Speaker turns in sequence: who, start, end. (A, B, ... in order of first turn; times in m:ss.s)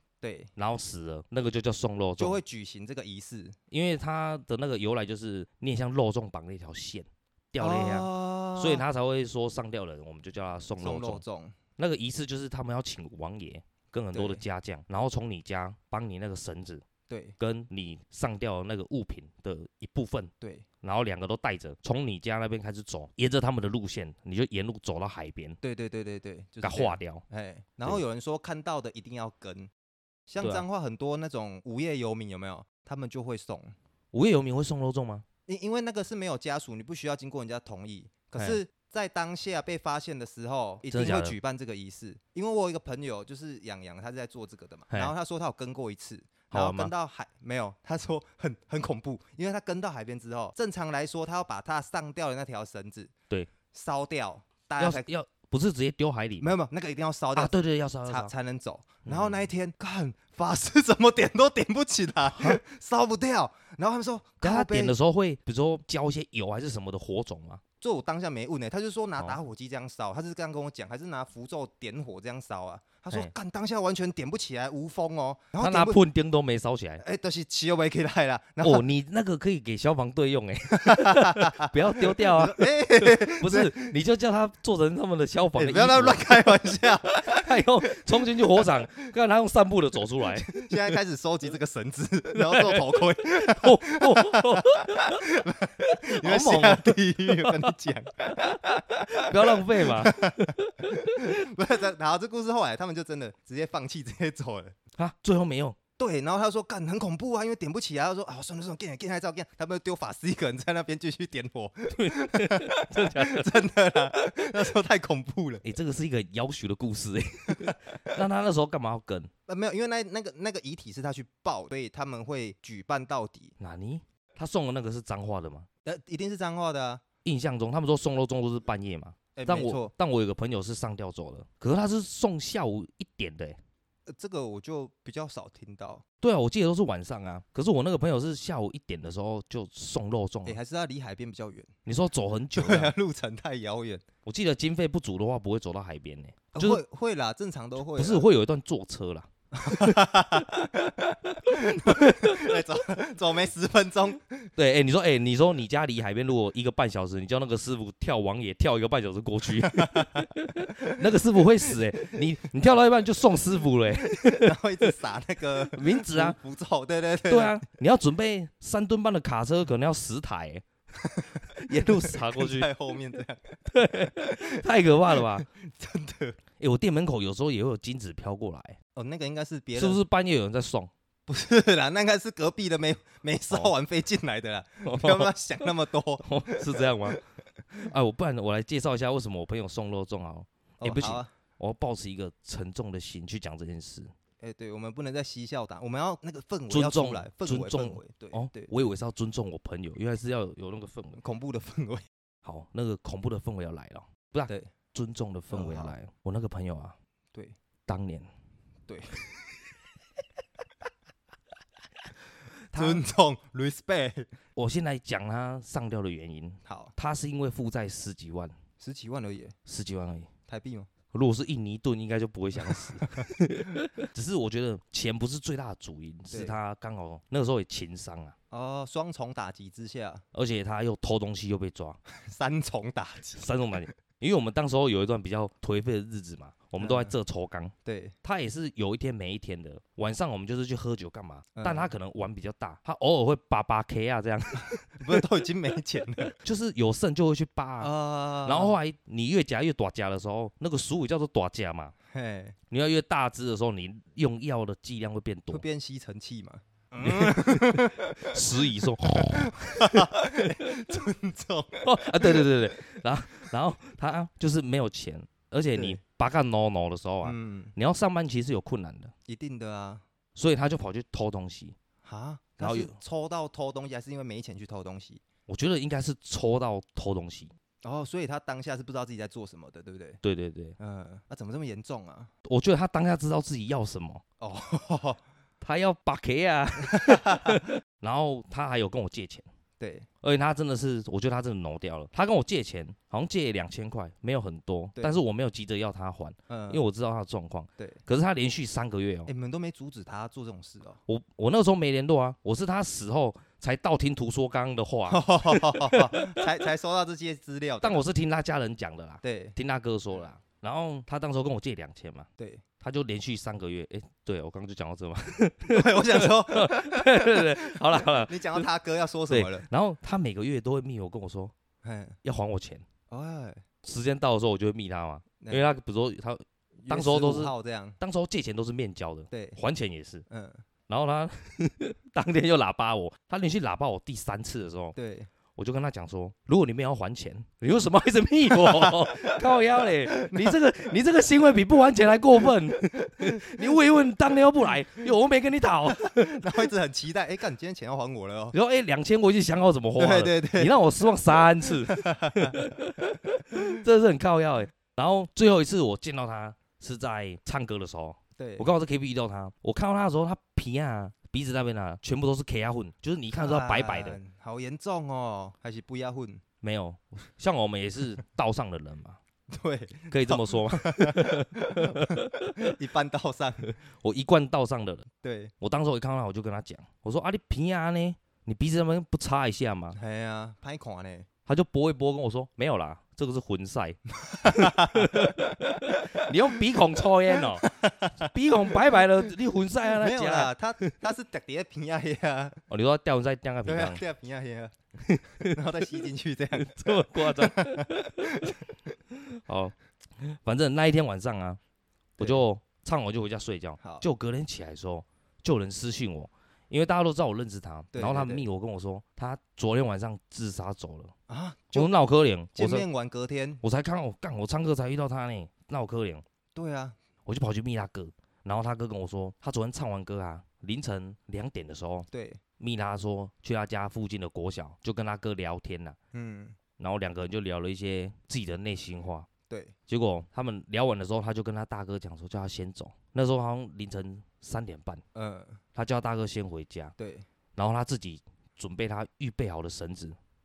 0:00.2-0:00.5 A
0:00.6-0:02.4 B
0:02.2-0:03.6 A
0:03.7-0:11.2 B
0:07.6-0:08.8 A
0:10.8-0:11.6 A
0:11.8-0:16.8 B
0:14.1-0:14.4 A
0:17.1-0:17.4 A
0:17.4-0:20.3 B
0:20.4-0:20.6 A
0:20.8-0:25.6 B
0:25.6-0:29.7 A
0:26.6-0:27.2 B
0:30.3-0:33.7 A
0:30.4-0:30.6 B
0:34.1-0:35.2 B
0:35.5-0:53.1 A
0:40.9-0:41.4 B
0:46.5-0:46.9 B
0:53.7-0:55.1 A
0:54.8-0:56.5 B
0:56.4-1:04.9 A
0:57.3-0:58.3 B
0:59.0-0:59.5 B
1:02.3-1:02.6 B
1:04.4-1:07.6 B
1:07.8-1:16.0 A
1:15.6-1:17.0 B
1:17.0-1:18.8 A
1:18.6-1:30.7 B
1:20.7-1:23.9 A
1:25.6-1:27.5 A
1:30.4-1:44.8 A
1:32.4-1:35.2 B
1:35.9-1:37.7 B
1:39.1-1:41.3 B
1:45.0-1:45.8 B
1:46.0-1:55.6 A
1:51.9-1:53.6 B
1:55.6-1:59.3 B
1:59.5-2:03.5 A
2:03.6-2:05.7 B
2:05.8-2:07.0 A
2:07.2-2:13.6 B
2:09.4-2:09.9 A
2:14.1-2:16.0 A
2:16.2-2:20.6 B
2:20.4-2:21.7 A
2:21.8-2:22.9 B
2:22.5-2:24.0 A
2:24.2-2:26.8 B
2:26.5-2:28.2 A
2:27.9-2:30.0 B
2:29.5-2:34.5 A
2:31.5-2:32.6 B
2:34.6-2:44.5 B
2:39.6-2:40.3 A
2:44.1-2:47.6 A
2:45.7-2:46.4 B
2:47.3-2:50.6 B
2:51.0-2:53.6 A
2:51.5-2:52.7 B
2:53.7-2:55.5 B
2:54.2-2:56.4 A
2:56.6-2:58.8 B
2:58.9-3:00.0 A
2:59.8-3:00.9 B
3:01.3-3:07.2 A
3:04.8-3:05.3 B
3:06.2-3:07.2 B
3:07.8-3:14.1 B
3:10.8-3:11.3 A
3:14.4-3:18.7 A
3:16.7-3:21.2 B
3:21.2-3:22.0 A
3:22.4-3:27.0 B
3:25.5-3:25.9 A
3:27.9-3:28.3 B
3:28.9-3:29.2 A
3:32.7-3:33.0 B
3:32.7-3:34.3 A
3:34.6-3:38.6 B
3:36.6-3:36.9 A
3:38.8-3:39.6 A
3:39.7-3:40.3 B
3:40.5-3:40.9 A
3:41.1-3:48.3 B
3:42.6-3:43.3 A
3:46.3-3:46.6 A
3:48.5-3:50.2 A
3:50.3-3:52.0 B
3:52.1-3:53.5 A
3:53.4-4:05.2 B
3:56.8-3:57.1 A
3:57.8-3:58.1 A
4:01.6-4:01.9 A
4:04.9-4:06.3 A
4:06.3-4:11.9 B
4:07.8-4:08.8 A
4:12.1-4:12.6 A
4:12.7-4:15.6 B
4:15.5-4:22.5 A
4:17.0-4:20.8 B
4:21.8-4:29.1 B
4:25.7-4:26.0 A
4:27.2-4:27.7 A
4:29.3-4:30.0 A
4:30.4-4:31.8 B
4:32.0-4:35.2 A
4:32.6-4:33.0 B
4:35.5-4:37.5 B
4:37.8-4:40.2 A
4:40.2-4:40.8 B
4:40.8-4:42.3 A
4:42.4-4:44.2 B
4:44.4-4:45.2 A
4:45.6-4:49.4 B
4:46.8-4:47.6 A
4:49.8-4:50.1 A
4:50.2-4:59.3 B
4:56.5-4:56.8 A
4:59.3-5:01.0 A
5:01.1-5:06.4 B
5:05.1-5:08.0 A
5:07.8-5:12.3 B
5:09.2-5:09.6 A
5:12.8-5:18.7 B
5:15.7-5:19.6 A
5:19.3-5:21.5 B
5:21.8-5:22.2 A
5:22.2-5:22.8 B
5:23.1-5:23.6 A
5:23.8-5:30.2 B
5:25.4-5:25.7 A
5:26.8-5:28.0 A
5:29.3-5:29.6 A
5:30.3-5:30.6 A
5:30.9-5:35.0 B
5:35.0-5:35.3 A
5:35.5-5:46.6 B
5:38.5-5:40.6 A
5:43.1-5:43.8 A
5:46.0-5:48.5 A
5:48.5-6:04.2 B
5:50.0-5:50.8 A
5:51.9-5:52.6 A
5:58.4-5:58.7 A
6:03.4-6:06.4 A
6:06.6-6:09.2 B
6:09.5-6:13.7 A
6:10.1-6:12.7 B
6:14.0-6:15.1 B
6:15.2-6:15.5 A
6:15.6-6:20.0 B
6:20.0-6:21.3 A
6:21.4-6:30.9 B
6:24.2-6:26.3 A
6:27.3-6:29.0 A
6:29.9-6:32.6 A
6:32.7-6:34.0 B
6:33.6-6:34.7 A
6:35.0-6:35.6 B
6:35.4-6:38.6 A
6:36.6-6:38.5 B
6:39.1-6:41.6 B
6:42.2-6:42.4 A
6:42.2-6:51.1 B
6:43.8-6:44.0 A
6:47.9-6:48.4 A
6:51.3-6:51.9 A
6:51.7-6:52.8 B
6:52.5-6:53.6 A
6:53.6-6:56.2 B
6:56.5-6:57.0 A
6:57.2-7:02.1 B
7:02.1-7:02.4 A
7:02.6-7:06.0 B
7:06.1-7:06.6 A
7:06.8-7:09.3 B
7:09.5-7:09.7 A
7:09.9-7:15.0 B
7:15.1-7:15.6 A
7:15.7-7:16.9 B
7:17.0-7:17.2 A
7:17.5-7:20.2 B